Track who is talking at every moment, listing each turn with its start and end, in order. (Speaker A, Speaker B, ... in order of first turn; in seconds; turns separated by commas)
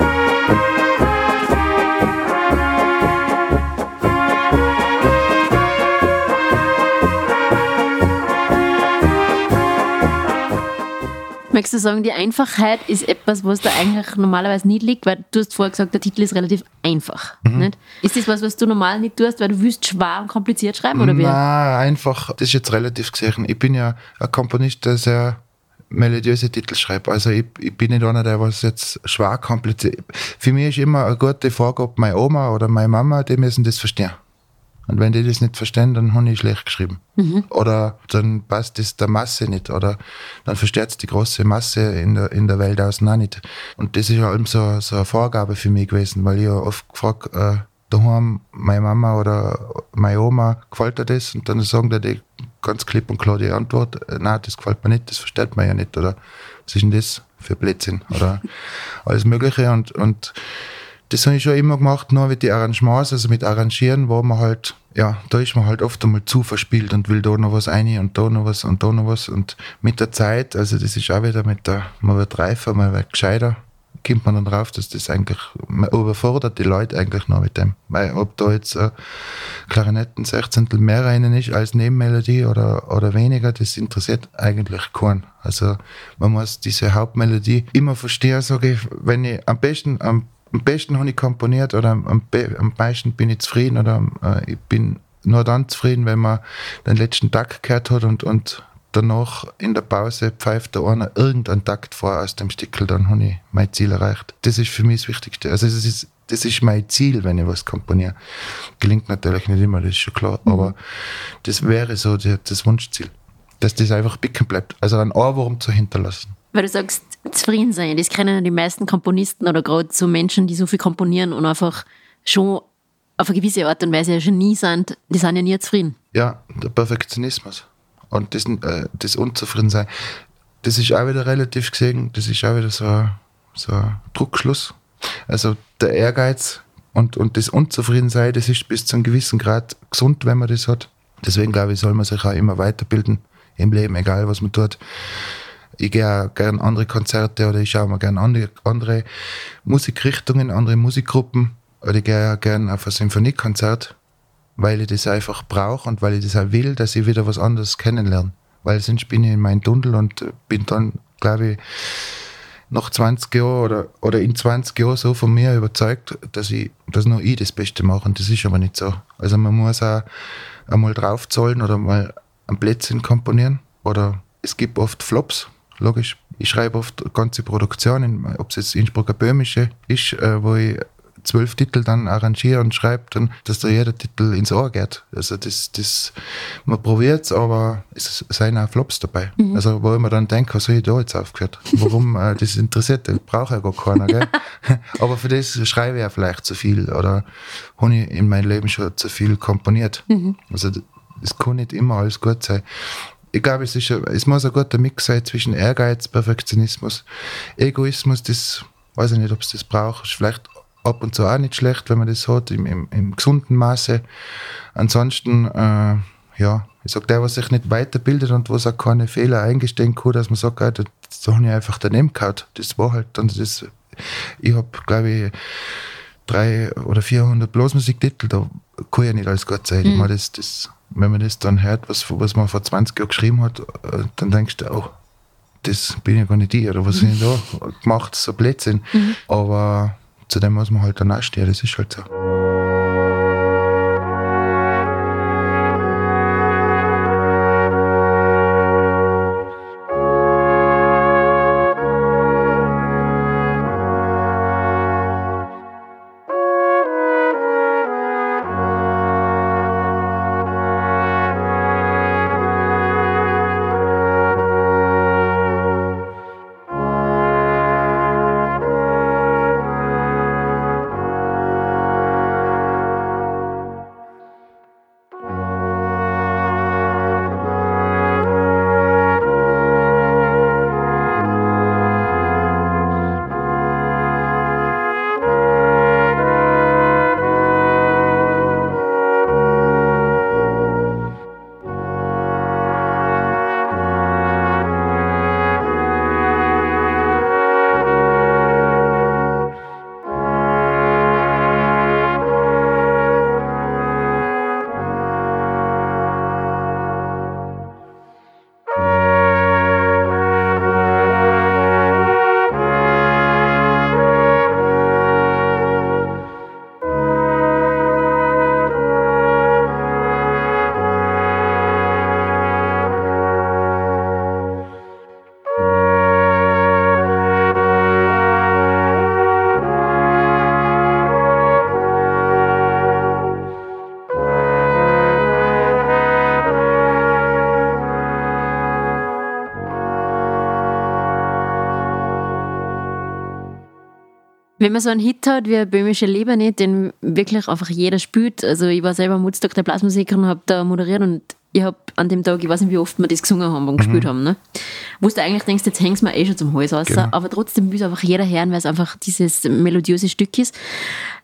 Speaker A: 11.5-21.4, Speaker B: 17.4-17.7, Speaker B: 20.9-34.2, Speaker B: 34.9-58.5, Speaker A: 37.2-37.5, Speaker B: 59.0-60.4, Speaker B: 61.1-108.2, Speaker B: 108.8-116.4, Speaker A: 110.5-110.7, Speaker A: 116.5-122.7, Speaker A: 123.2-126.0, Speaker B: 126.1-149.1, Speaker B: 149.6-154.0, Speaker B: 154.6-170.1, Speaker B: 170.7-202.6, Speaker A: 200.1-200.4, Speaker B: 203.3-214.0, Speaker B: 214.7-235.0, Speaker A: 229.8-230.1, Speaker B: 235.6-242.1, Speaker A: 344.6-354.4, Speaker B: 353.8-354.1, Speaker A: 355.0-361.1, Speaker B: 356.9-357.1